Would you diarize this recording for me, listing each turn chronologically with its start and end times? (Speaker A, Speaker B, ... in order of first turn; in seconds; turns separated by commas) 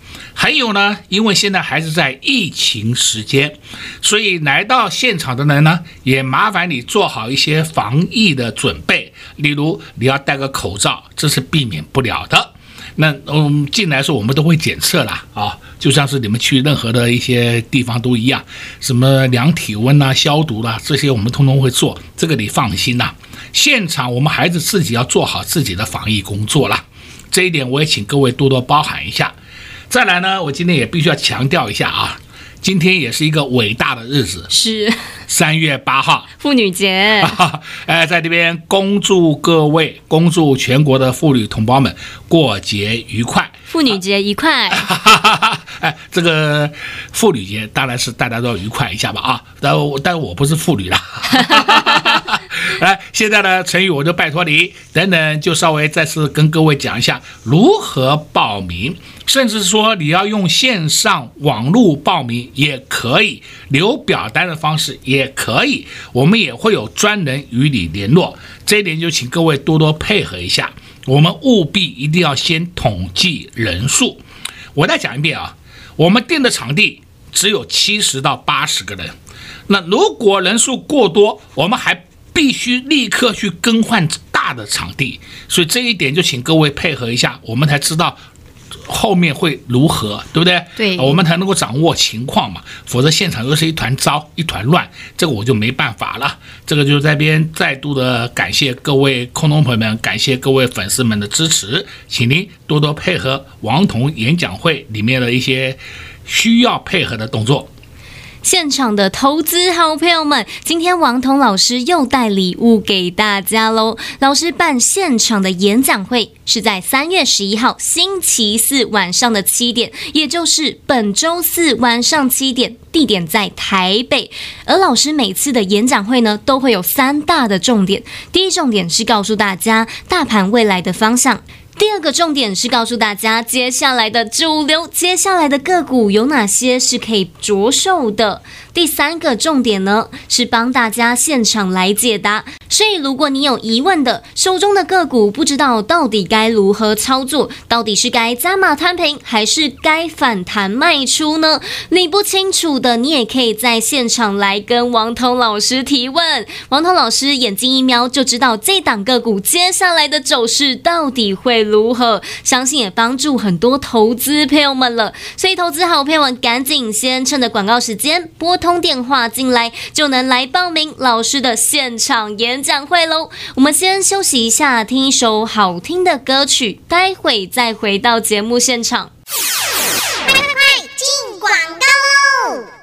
Speaker A: 0.3-29.4, Speaker A: 29.9-34.5, Speaker B: 34.5-35.0, Speaker A: 35.3-36.3, Speaker B: 36.4-37.4, Speaker A: 37.2-43.5, Speaker B: 43.7-44.9, Speaker A: 44.7-74.2, Speaker A: 74.8-79.2, Speaker A: 79.7-88.2, Speaker A: 88.9-107.7, Speaker B: 90.8-91.2, Speaker B: 108.4-179.1, Speaker C: 180.3-182.7